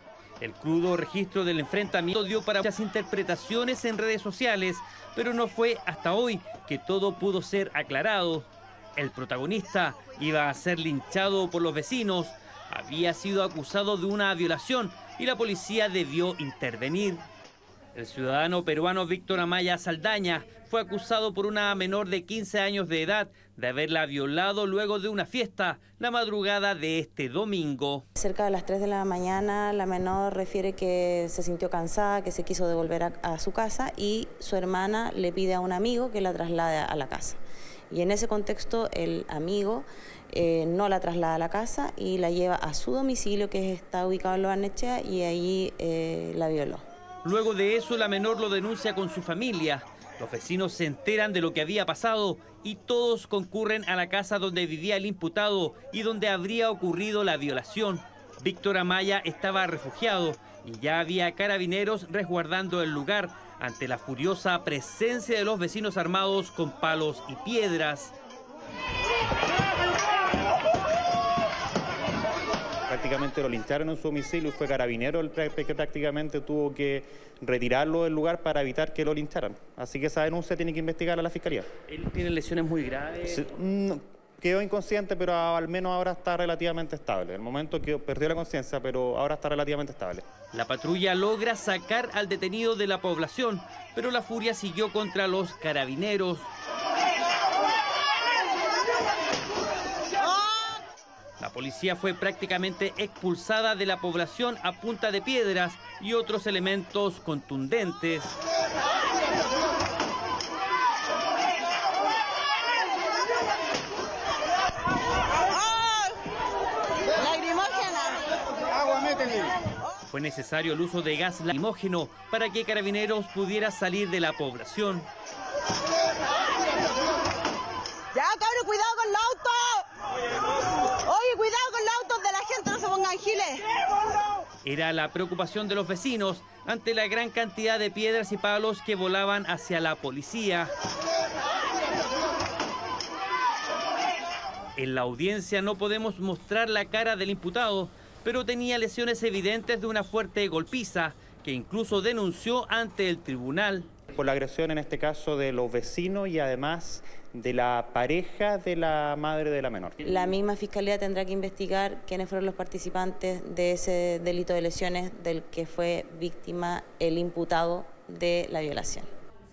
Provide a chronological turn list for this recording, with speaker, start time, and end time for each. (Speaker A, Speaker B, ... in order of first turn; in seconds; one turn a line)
Speaker A: 0.4-17.3
Speaker A: 17.9-28.1
Speaker B: 28.2-37.4
Speaker B: 37.9-46.8
Speaker A: 47.2-68.1
Speaker C: 72.9-81.7
Speaker A: 81.9-83.5
Speaker C: 83.3-90.2
Speaker A: 90.5-96.5
Speaker A: 101.4-108.4
Speaker D: 115.7-116.0
Speaker D: 117.2-118.3
Speaker D: 118.9-119.2
Speaker A: 120.1-125.1
Speaker D: 128.2-129.9
Speaker D: 131.1-133.8
Speaker A: 134.6-140.7
Speaker A: 144.8-153.9
Speaker C: 154.1-160.0
Speaker B: 160.0-169.1